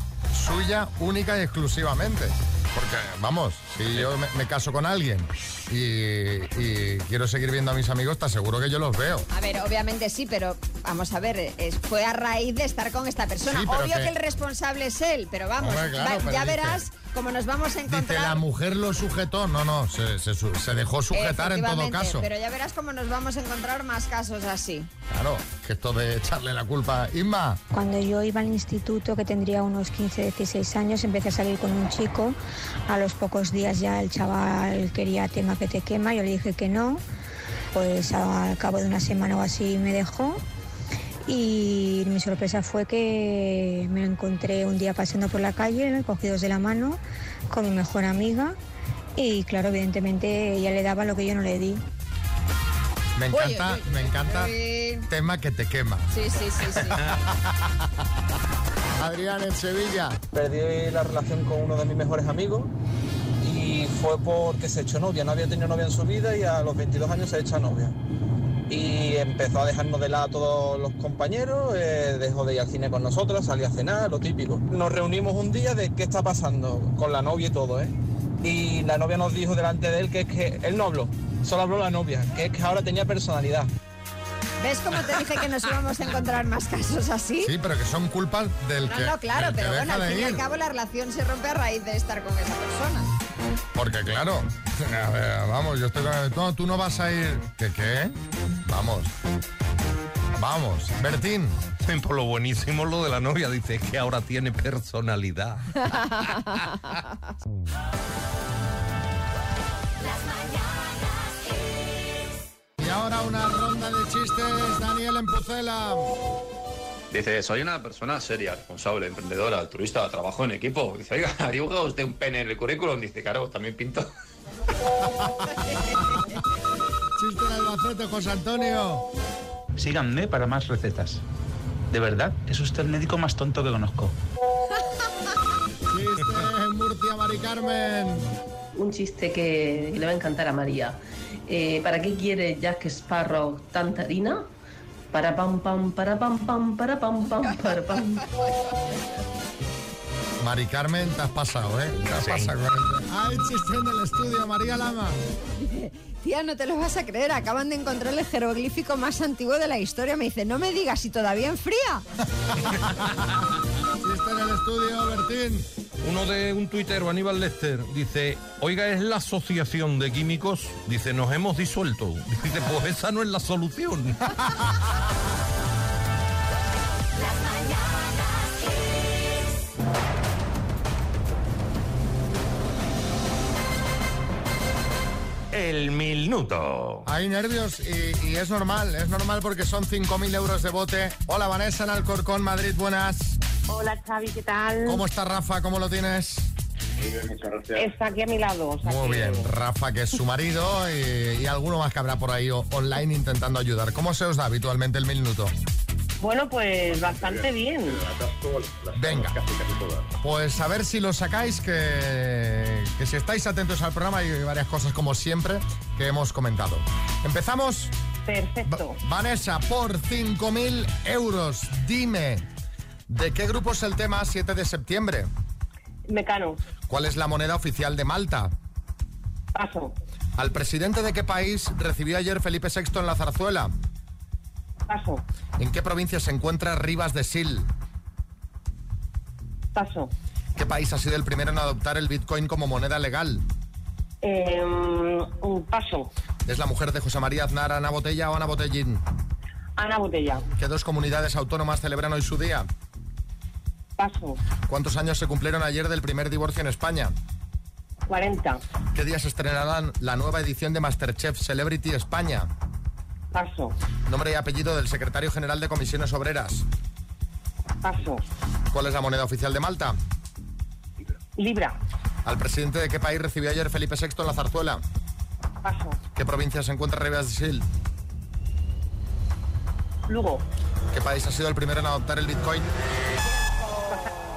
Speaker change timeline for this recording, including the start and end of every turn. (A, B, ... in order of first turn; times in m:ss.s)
0:00.3-0:09.3 A
0:09.3-0:18.4 B
0:13.4-0:14.1 A
0:15.6-0:16.8 A
0:17.9-0:22.3 A
0:21.1-0:24.9 B
0:25.1-0:27.6 A
0:27.7-0:32.4 C
0:32.9-0:37.0 C
0:37.7-0:40.4 C
0:41.2-0:48.6 C
0:49.2-0:51.8 C
0:53.2-0:54.5 A
0:53.3-0:55.1 B
0:55.1-0:56.1 A
0:56.1-0:57.1 B
0:56.7-0:57.5 A
0:59.0-1:00.2 A
1:00.3-1:02.7 D
1:03.4-1:07.9 D
1:08.7-1:23.7 D
1:24.6-1:27.5 B
1:27.4-1:30.4 A
1:28.9-1:33.1 B
1:33.7-1:39.1 A
1:40.4-1:41.6 A
1:41.8-1:46.9 E
1:52.8-1:56.1 A
1:57.1-2:04.1 F
2:05.4-2:05.8 A
2:07.2-2:09.1 A
2:09.8-2:11.2 G
2:11.9-2:14.2 G
2:15.9-2:18.3 A
2:18.7-2:24.5 H
2:25.1-2:28.3 H
2:30.4-2:35.2 A
2:32.1-2:32.5 E
2:35.5-2:42.0 B
2:42.7-2:43.1 A
2:44.0-2:45.7 A
2:46.0-2:54.3 E
3:05.5-3:07.0 E
3:07.0-3:13.4 A
3:13.7-3:14.9 I
3:14.8-3:16.5 A
3:17.7-3:19.5 I
3:18.8-3:25.5 A
3:26.2-3:28.1 I
3:28.9-3:29.4 A
3:30.2-3:37.9 A
3:38.3-3:39.0 I
3:38.7-3:42.4 A
3:43.1-3:45.3 A
3:46.1-3:46.6 I
3:46.9-3:48.5 A
3:49.5-3:49.9 I
3:50.4-3:53.7 A
3:54.9-3:55.2 I
3:55.6-3:57.7 A
3:59.7-4:00.1 I
4:00.5-4:03.4 A
4:04.2-4:06.1 I
4:06.4-4:09.0 A
4:09.8-4:10.4 I
4:10.6-4:12.7 A
4:14.0-4:14.4 I
4:14.7-4:17.1 A
4:18.1-4:18.6 I
4:18.9-4:22.5 A
4:23.3-4:23.7 I
4:24.0-4:26.6 A
4:27.8-4:28.2 I
4:28.7-4:30.0 A
4:31.4-4:31.8 I
4:32.2-4:34.8 A
4:35.6-4:36.0 I
4:36.1-4:37.6 A
4:40.1-4:40.4 I
4:40.9-4:42.7 A
4:43.9-4:44.1 I